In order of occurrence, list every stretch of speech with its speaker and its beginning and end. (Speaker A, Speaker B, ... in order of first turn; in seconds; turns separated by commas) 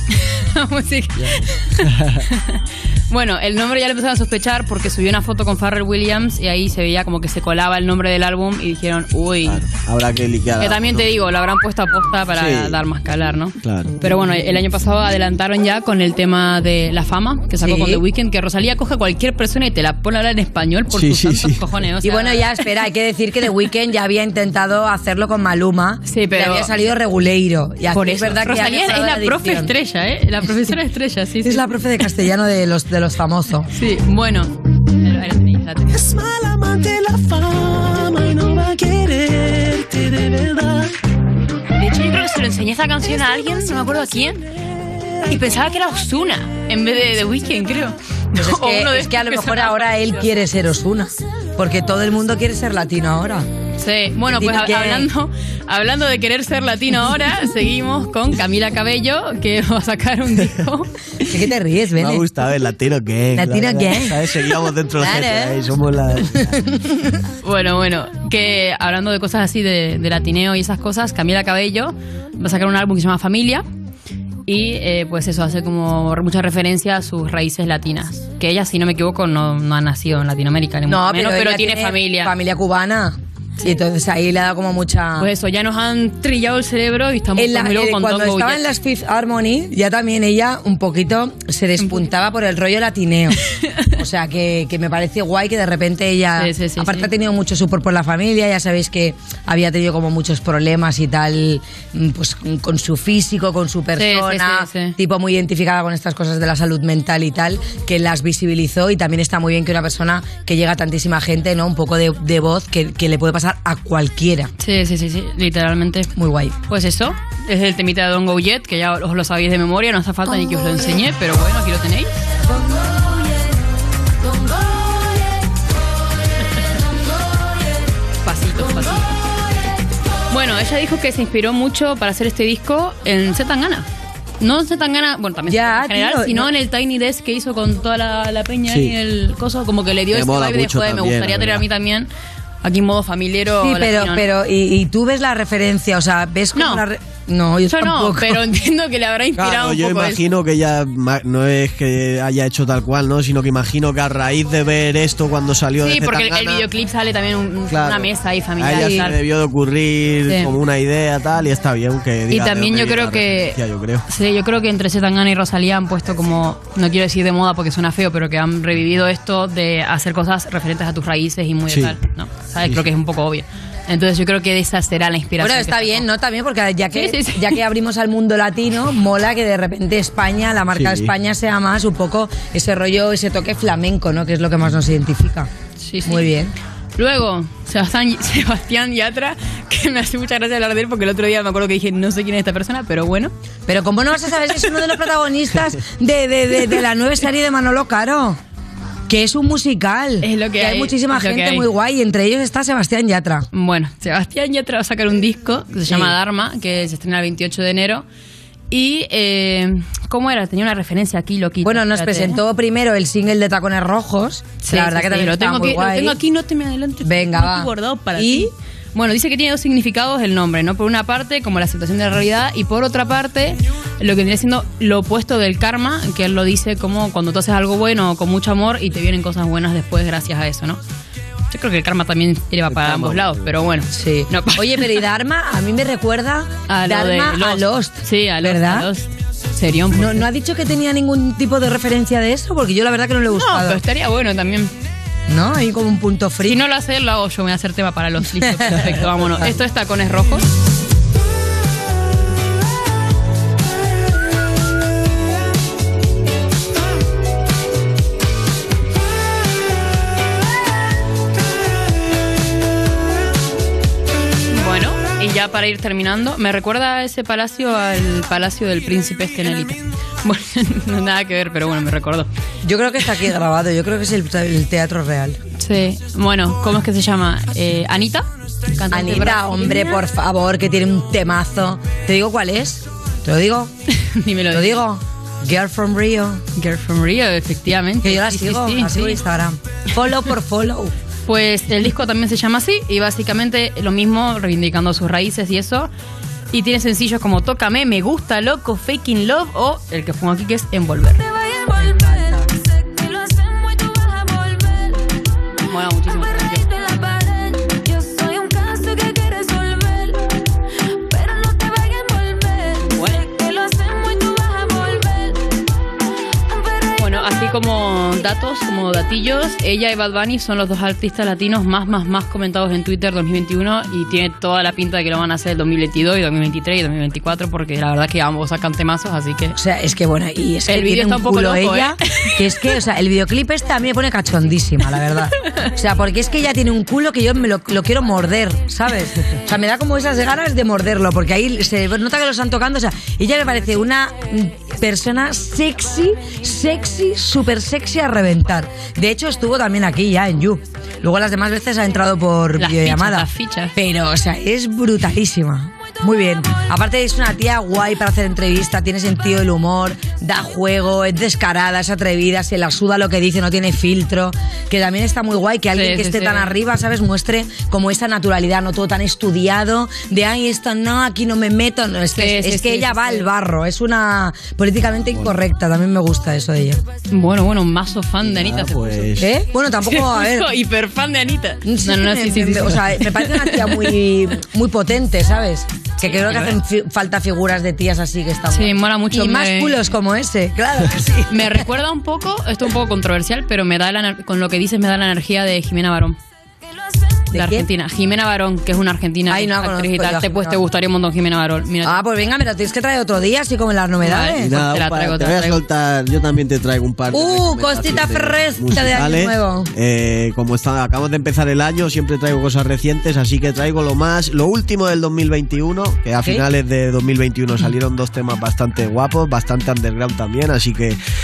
Speaker A: 0.1-9.6, Speaker B: 1.9-2.2, Speaker B: 9.4-11.1, Speaker A: 10.6-22.6, Speaker B: 12.3-12.8, Speaker B: 13.6-13.9, Speaker C: 17.6-18.0, Speaker B: 20.9-21.6, Speaker C: 22.0-29.7, Speaker A: 26.1-26.7, Speaker A: 27.9-31.6, Speaker C: 31.4-33.7, Speaker A: 33.7-36.1, Speaker D: 36.1-40.7, Speaker A: 41.8-44.5, Speaker A: 45.3-49.9, Speaker C: 48.3-53.5, Speaker A: 53.8-60.9, Speaker C: 54.3-55.1, Speaker C: 61.2-62.2, Speaker B: 62.0-66.6, Speaker C: 63.3-64.3, Speaker C: 65.0-65.6, Speaker C: 66.6-67.1, Speaker A: 67.4-73.7, Speaker A: 74.5-82.3, Speaker C: 80.9-85.3, Speaker A: 85.2-88.6, Speaker C: 87.3-93.4, Speaker A: 91.8-92.1, Speaker A: 93.4-93.9, Speaker C: 93.9-114.5, Speaker A: 96.4-97.1, Speaker A: 104.0-105.0, Speaker A: 114.6-116.1, Speaker C: 116.2-116.6, Speaker A: 116.7-122.2, Speaker A: 128.2-129.1, Speaker A: 130.3-133.9, Speaker A: 134.4-142.1, Speaker C: 135.5-136.5, Speaker B: 138.7-138.9, Speaker B: 140.1-141.6, Speaker A: 142.6-144.2, Speaker C: 143.6-148.4, Speaker A: 146.6-146.8, Speaker A: 147.7-150.2, Speaker B: 149.3-156.7, Speaker A: 155.8-159.2, Speaker B: 157.7-164.0, Speaker C: 158.8-159.0, Speaker A: 162.3-176.0, Speaker B: 171.7-171.9, Speaker C: 175.4-185.5, Speaker A: 176.9-177.6, Speaker B: 180.7-181.1, Speaker A: 185.8-186.3, Speaker C: 186.0-186.5, Speaker A: 187.0-193.3, Speaker C: 193.7-198.4, Speaker C: 199.1-203.5, Speaker A: 200.2-201.7, Speaker A: 203.5-208.0, Speaker C: 205.9-206.1, Speaker A: 208.7-212.4, Speaker C: 211.6-216.2, Speaker A: 214.6-230.8, Speaker C: 217.0-218.5, Speaker A: 231.5-234.8, Speaker B: 232.7-233.5, Speaker C: 233.9-238.9, Speaker A: 236.7-240.2, Speaker C: 239.9-243.8, Speaker A: 243.4-244.7, Speaker C: 245.3-246.6, Speaker A: 246.4-250.5, Speaker C: 248.6-248.8, Speaker A: 264.5-272.3, Speaker C: 272.6-275.4, Speaker A: 275.6-280.0, Speaker C: 278.9-283.7, Speaker A: 283.9-284.8, Speaker C: 284.5-286.4, Speaker A: 286.6-289.2, Speaker C: 288.0-290.9, Speaker A: 291.2-295.9, Speaker A: 296.5-301.2, Speaker D: 301.2-305.1, Speaker A: 305.7-306.7, Speaker D: 306.2-310.3, Speaker D: 310.9-315.5, Speaker A: 312.9-313.2, Speaker D: 316.5-317.3, Speaker A: 317.0-329.6, Speaker C: 329.5-376.8, Speaker A: 330.7-332.4, Speaker A: 352.6-353.7, Speaker A: 365.7-366.5, Speaker A: 372.1-373.3, Speaker A: 377.1-379.2, Speaker B: 378.2-379.3, Speaker C: 379.2-380.5, Speaker A: 379.9-383.9, Speaker C: 381.6-391.6, Speaker A: 386.0-386.6, Speaker A: 388.5-389.8, Speaker A: 391.3-396.2, Speaker C: 397.3-397.7, Speaker A: 397.3-402.0, Speaker C: 399.3-400.6, Speaker C: 401.8-404.5, Speaker A: 404.0-405.6, Speaker B: 404.4-421.0, Speaker C: 407.1-409.7